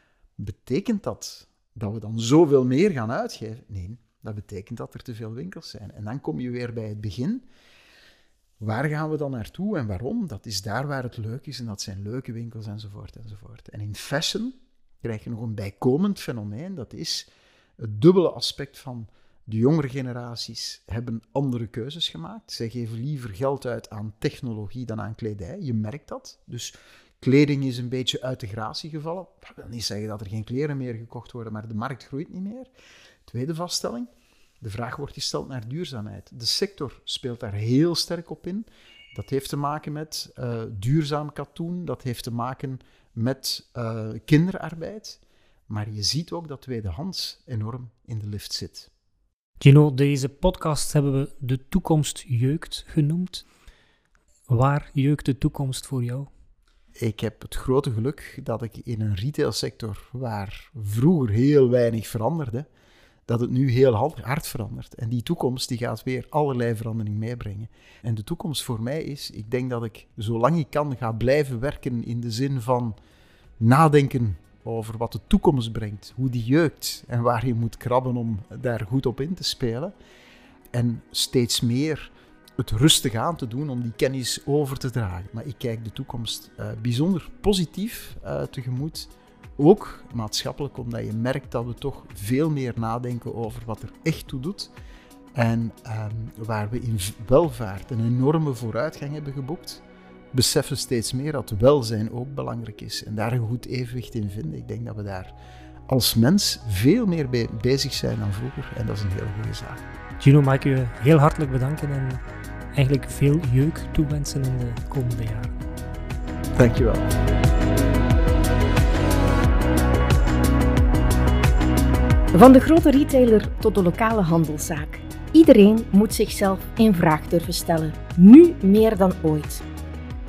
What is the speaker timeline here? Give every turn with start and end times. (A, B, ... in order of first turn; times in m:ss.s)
0:00.4-0:07.4 A
0:08.6-0:17.3 A
0:17.8-0:32.7 A
0:33.3-0:34.1 A
0:34.6-0:48.9 A
0:49.6-0:53.4 B
0:54.5-0:56.3 B
0:57.0-1:02.7 A
1:03.3-1:13.0 A
1:13.6-1:19.9 A
1:20.7-1:34.7 A
1:35.4-1:45.4 A
1:45.9-1:49.8 A
1:50.2-1:52.2 B
1:52.7-1:55.6 B
1:56.6-1:57.2 A
2:02.3-2:09.6 C